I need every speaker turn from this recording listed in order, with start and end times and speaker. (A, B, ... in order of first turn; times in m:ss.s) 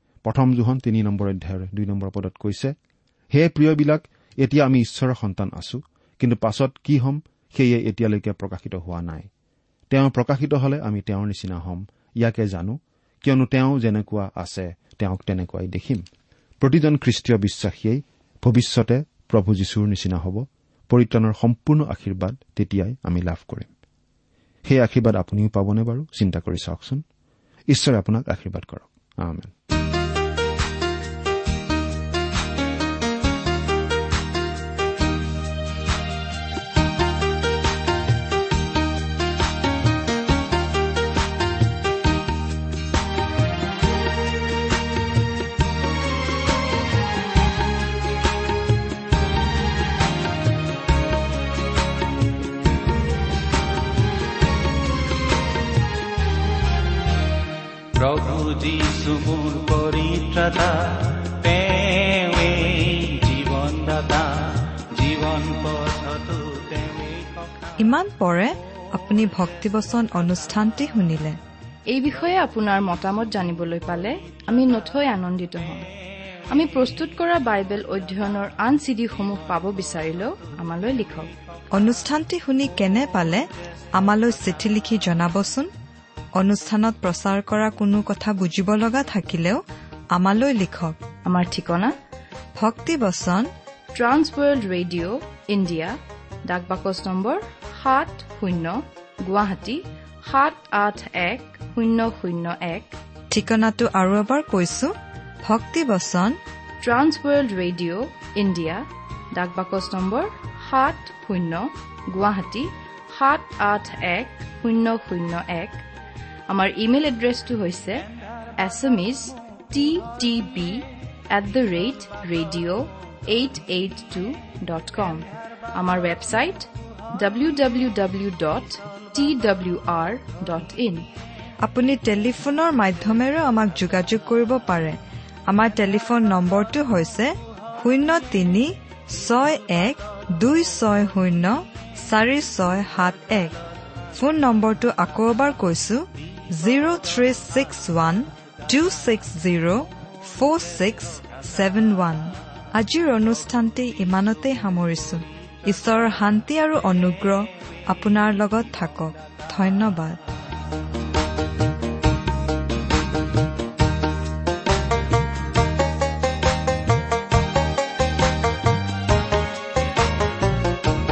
0:00.2-0:02.7 A
0:03.3-0:09.3 A
0:09.9-0:16.0 A
0:16.6-0:23.7 A
0:24.6-0:27.0 A
0:27.7-0:29.5 A
0:57.9-1:07.7 B
1:07.8-1:11.4 C
1:11.9-1:15.9 D
1:16.5-1:21.3 D
1:21.7-1:25.7 C
1:26.4-1:29.6 C
1:30.1-1:31.0 C
1:31.2-1:31.9 D
1:32.6-1:33.5 C
1:33.9-1:43.0 D
1:43.3-1:46.4 C
1:46.8-1:55.8 D
1:56.5-1:58.0 D
1:58.6-2:11.1 D
2:11.6-2:23.6 C
2:24.1-2:40.2 C